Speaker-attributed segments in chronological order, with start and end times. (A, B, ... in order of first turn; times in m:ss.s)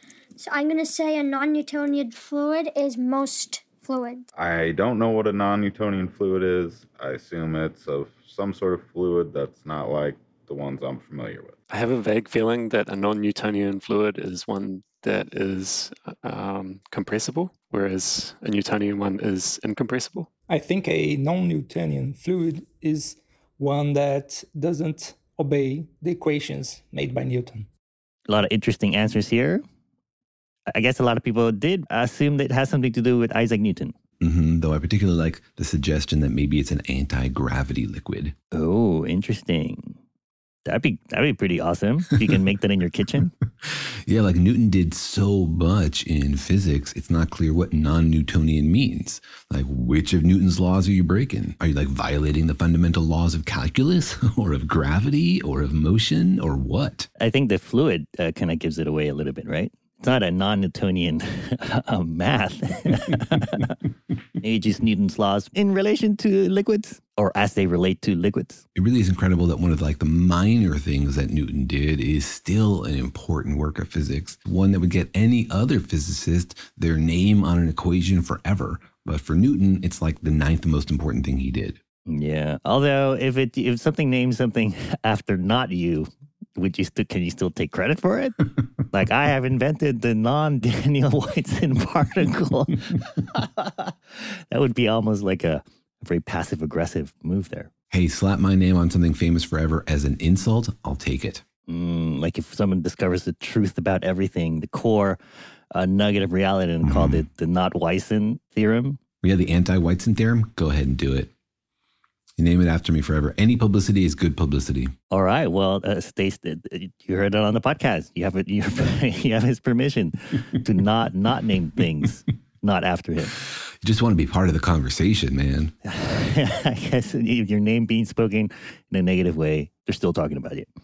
0:00.4-0:04.2 A
0:04.4-0:11.6 B
0:11.7-0:20.3 C
0:20.5-0:27.7 D
0:28.3-0:29.6 E
0:30.7-0:33.9 E
0:34.2-0:38.3 F
0:38.5-0:40.0 E
0:40.6-0:43.3 E
0:43.6-0:57.1 F
0:57.2-1:03.7 E
1:04.4-1:08.6 E
1:08.7-1:21.8 F
1:22.1-1:37.7 E
1:37.9-1:41.4 F
1:41.7-1:45.2 E
1:45.7-1:49.0 E
1:46.8-1:47.2 F
1:49.2-1:51.3 F
1:52.4-1:54.9 F
1:55.1-2:03.3 E
2:03.8-2:05.7 F
2:05.8-2:10.6 E